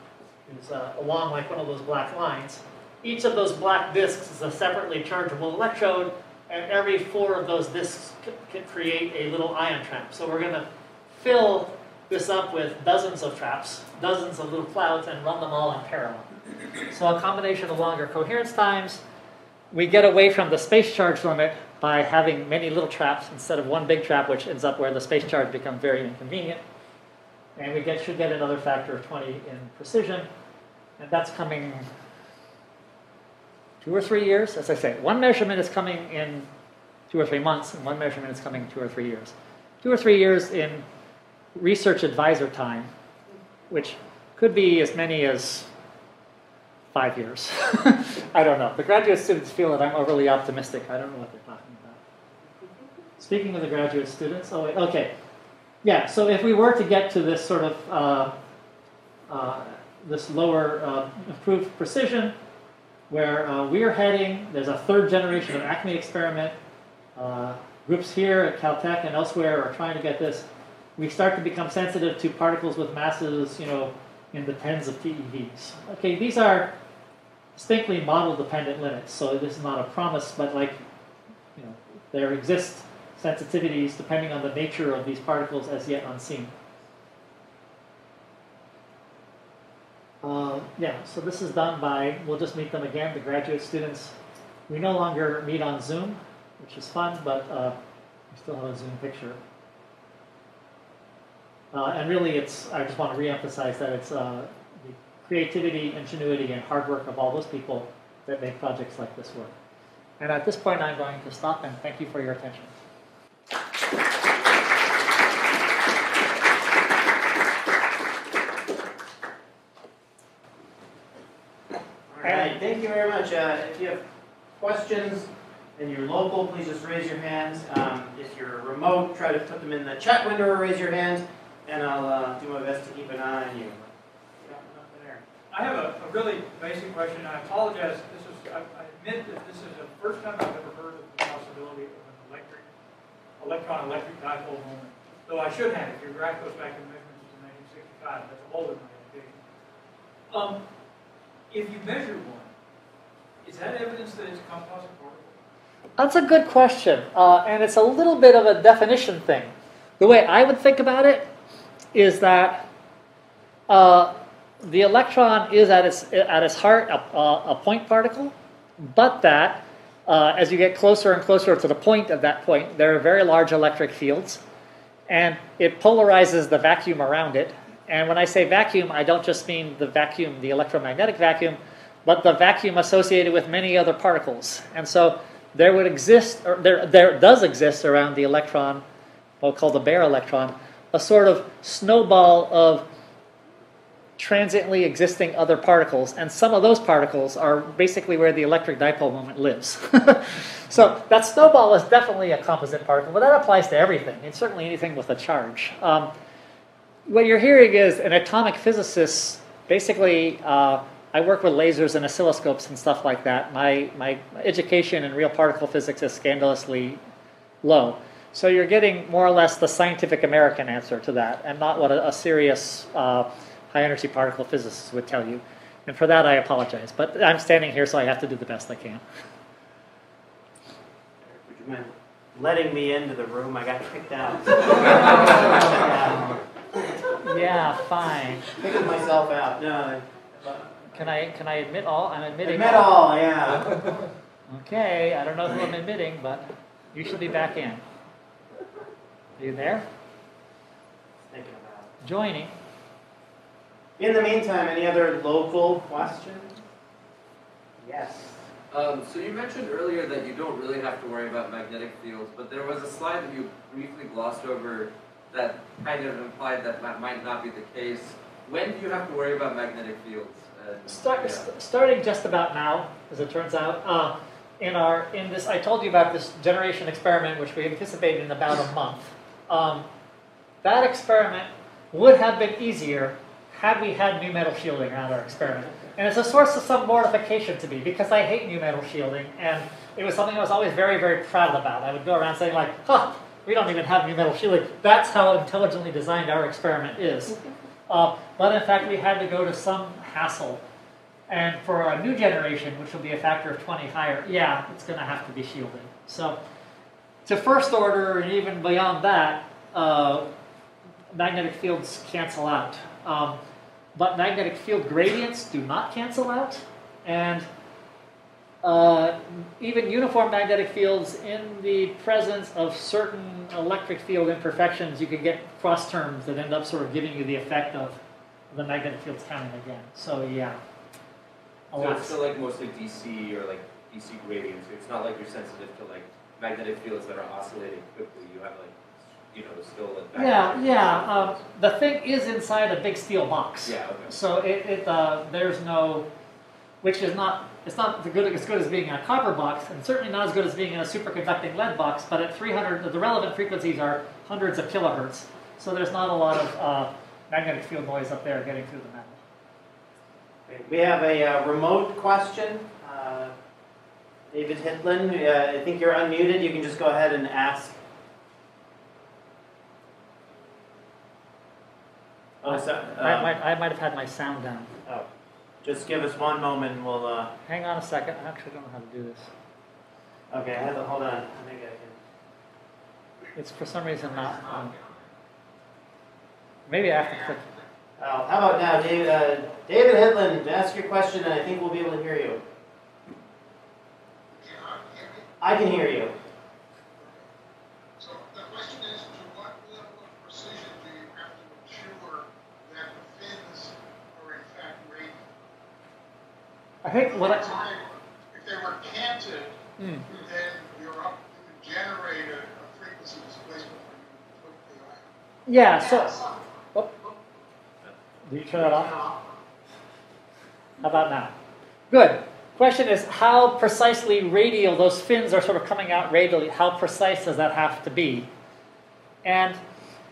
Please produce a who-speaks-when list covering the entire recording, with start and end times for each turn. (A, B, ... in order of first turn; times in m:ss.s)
0:00.5-0:16.3 A
0:16.9-0:19.0 A
0:19.7-0:26.6 A
0:27.6-0:30.3 A
0:31.0-0:31.9 A
0:33.8-0:36.5 A
0:37.1-0:40.8 A
0:41.6-0:42.9 A
0:43.7-0:45.7 A
0:46.9-0:52.0 A
0:53.2-0:55.1 A
0:55.8-0:58.3 A
0:59.3-1:02.3 A
1:03.1-1:06.6 A
1:07.2-1:10.4 A
1:11.0-1:16.7 A
1:17.6-1:20.8 A
1:21.6-1:26.5 A
1:30.2-1:34.1 A
1:34.7-1:37.7 A
1:38.3-1:39.4 A
1:41.7-1:49.5 A
1:50.2-1:52.7 A
2:02.1-2:04.0 B
2:02.2-2:02.6 A
2:04.6-2:15.2 B
2:15.5-2:22.7 C
2:23.4-2:29.4 C
2:30.3-2:30.6 C
2:31.5-2:32.5 C
2:33.4-2:35.4 C
2:36.0-2:41.3 A
2:41.9-2:42.6 A
2:43.7-2:54.4 A
2:55.1-3:08.8 A
3:09.4-3:12.8 A
3:14.2-3:26.1 A
3:27.1-3:37.0 A
3:37.6-3:49.0 A
3:51.2-3:57.0 B
3:57.2-3:58.5 A
3:58.5-4:00.9 B
4:00.9-4:02.9 A
4:02.4-4:03.9 B
4:04.5-4:07.8 A
4:09.4-4:09.8 A
4:11.3-4:11.9 B
4:12.0-4:12.5 A
4:14.0-4:16.6 B
4:17.8-4:18.4 B
4:18.7-4:31.5 D
4:30.9-4:39.9 A
4:40.6-4:57.4 A
4:57.9-5:00.6 A
5:01.3-5:06.4 A
5:07.3-5:10.3 A
5:11.1-5:13.4 A
5:13.9-5:17.5 A
5:18.6-5:28.0 A
5:28.5-5:30.6 A
5:31.7-5:38.8 E
5:31.7-5:32.1 A
5:31.8-5:32.1 D
5:39.3-5:41.4 E
5:40.1-5:46.1 A
5:43.6-5:44.2 E
5:46.8-5:59.2 A
6:00.4-6:03.3 B
6:04.3-6:07.8 B
6:12.4-6:13.3 B
6:12.4-6:14.7 A
6:15.6-6:17.3 B
6:17.4-6:19.3 A
6:20.3-6:22.0 B
6:23.4-6:24.7 A
6:26.7-6:27.4 A
6:28.0-6:32.4 B
6:34.3-6:35.3 F
6:35.4-6:36.1 B
6:37.0-6:37.3 F
6:38.0-6:45.2 F
6:46.8-6:47.6 A
6:46.9-6:49.6 F
6:49.8-6:50.0 A
6:50.1-6:55.0 F
6:55.5-6:56.2 A
6:58.3-6:59.0 A
7:00.8-7:01.3 A
7:01.9-7:08.3 A
7:09.2-7:09.6 A